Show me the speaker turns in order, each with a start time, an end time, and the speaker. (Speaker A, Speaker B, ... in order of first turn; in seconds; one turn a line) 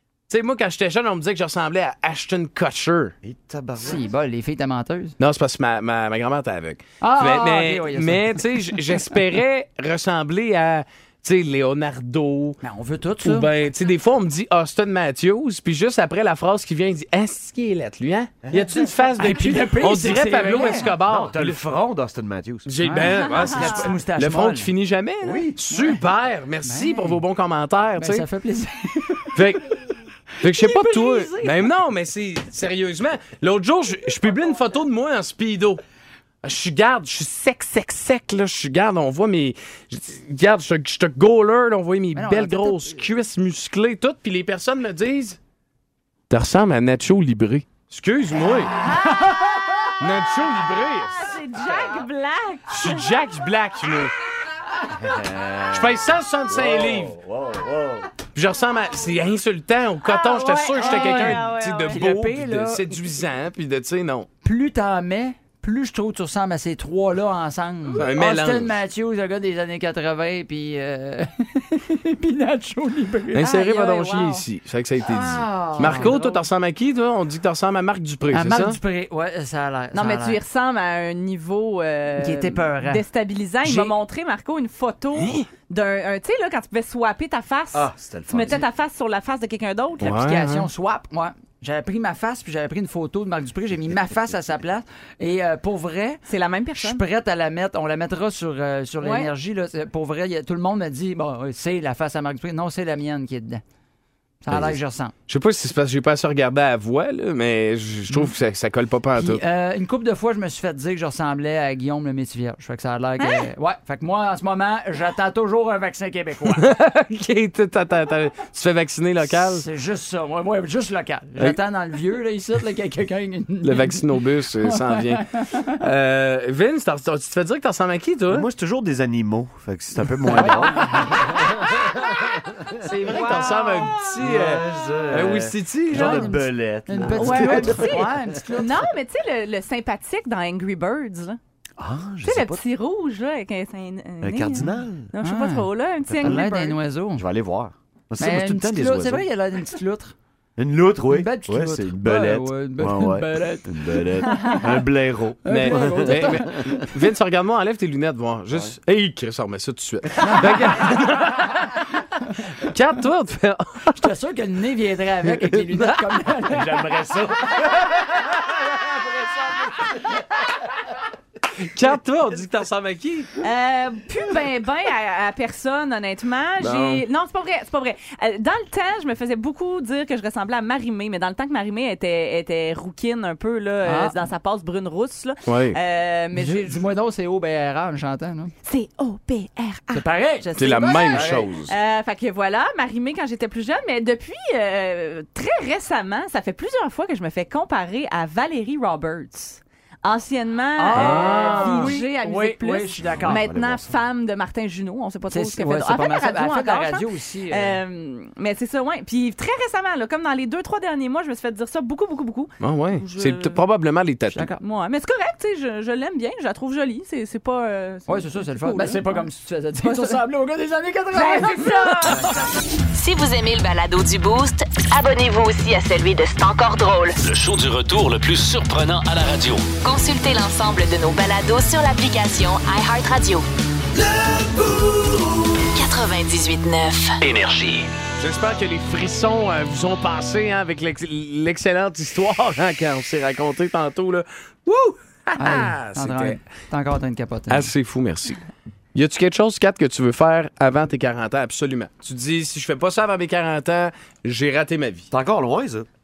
Speaker A: 0.3-3.1
Speaker B: 3.2-4.1
Speaker C: 3.8-5.2
Speaker A: 5.2-12.6
Speaker C: 7.0-9.1
Speaker C: 12.6-13.5
Speaker A: 13.2-21.6
Speaker B: 18.4-18.8
Speaker C: 19.2-20.9
Speaker B: 20.6-22.7
Speaker A: 22.6-28.2
Speaker C: 22.8-24.7
Speaker D: 23.4-23.9
Speaker B: 25.2-25.6
Speaker C: 25.7-26.0
Speaker C: 26.6-27.2
Speaker C: 28.0-29.4
Speaker A: 29.4-29.6
Speaker A: 30.4-35.8
Speaker C: 30.4-31.6
Speaker A: 36.4-45.4
Speaker C: 42.1-43.0
Speaker A: 46.3-48.7
Speaker D: 48.8-49.7
Speaker A: 50.0-51.2
Speaker D: 50.6-53.1
Speaker A: 52.7-54.1
Speaker B: 55.0-58.1
Speaker A: 55.7-57.1
Speaker A: 58.3-64.3
Speaker D: 60.0-62.0
Speaker C: 60.8-63.0
Speaker C: 64.4-73.4
Speaker A: 68.0-68.8
Speaker A: 73.3-78.8
Speaker D: 73.4-74.5
Speaker C: 75.0-76.4
Speaker D: 75.8-76.2
Speaker C: 78.3-80.4
Speaker D: 79.9-90.2
Speaker C: 82.2-83.0
Speaker C: 83.6-84.0
Speaker A: 85.2-85.4
Speaker B: 87.7-88.6
Speaker A: 90.0-90.7
Speaker C: 90.0-96.2
Speaker D: 96.3-97.0
Speaker C: 96.8-103.6
Speaker D: 99.0-99.3
Speaker C: 104.4-105.1
Speaker A: 105.3-109.4
Speaker C: 109.2-116.7
Speaker A: 116.5-119.7
Speaker C: 119.2-125.7
Speaker A: 123.6-128.5
Speaker B: 128.3-131.9
Speaker C: 130.3-131.3
Speaker A: 132.8-136.3
Speaker D: 133.1-133.9
Speaker B: 134.2-138.4
Speaker C: 135.9-138.8
Speaker D: 137.1-141.4
Speaker B: 141.8-142.6
Speaker D: 142.2-146.8
Speaker B: 144.2-145.1
Speaker C: 145.2-145.7
Speaker B: 146.1-149.3
Speaker C: 146.2-147.2
Speaker C: 148.2-150.2
Speaker B: 150.6-156.6
Speaker C: 151.1-154.6
Speaker C: 155.4-156.6
Speaker A: 155.5-161.8
Speaker C: 160.2-160.6
Speaker A: 162.6-164.1
Speaker C: 164.0-167.0
Speaker A: 165.3-166.0
Speaker B: 166.5-169.9
Speaker A: 171.6-173.3
Speaker D: 173.4-186.8
Speaker B: 176.6-177.1
Speaker C: 183.8-184.2
Speaker A: 185.5-185.8
Speaker C: 186.3-188.5
Speaker D: 188.7-213.6
Speaker C: 189.9-191.4
Speaker A: 190.6-191.7
Speaker C: 200.8-203.5
Speaker A: 200.9-202.0
Speaker B: 203.2-203.9
Speaker C: 205.3-207.8
Speaker A: 212.6-214.5
Speaker C: 214.3-214.6
Speaker D: 214.6-219.2
Speaker C: 218.1-222.2
Speaker D: 219.8-220.2
Speaker D: 221.1-222.3
Speaker E: 223.0-227.1
Speaker F: 227.2-229.7
Speaker E: 229.8-233.4
Speaker E: 235.8-237.1
Speaker F: 237.2-237.9
Speaker A: 238.2-246.4
Speaker C: 245.4-247.7
Speaker A: 247.5-248.4
Speaker A: 248.9-255.1
Speaker B: 255.1-255.9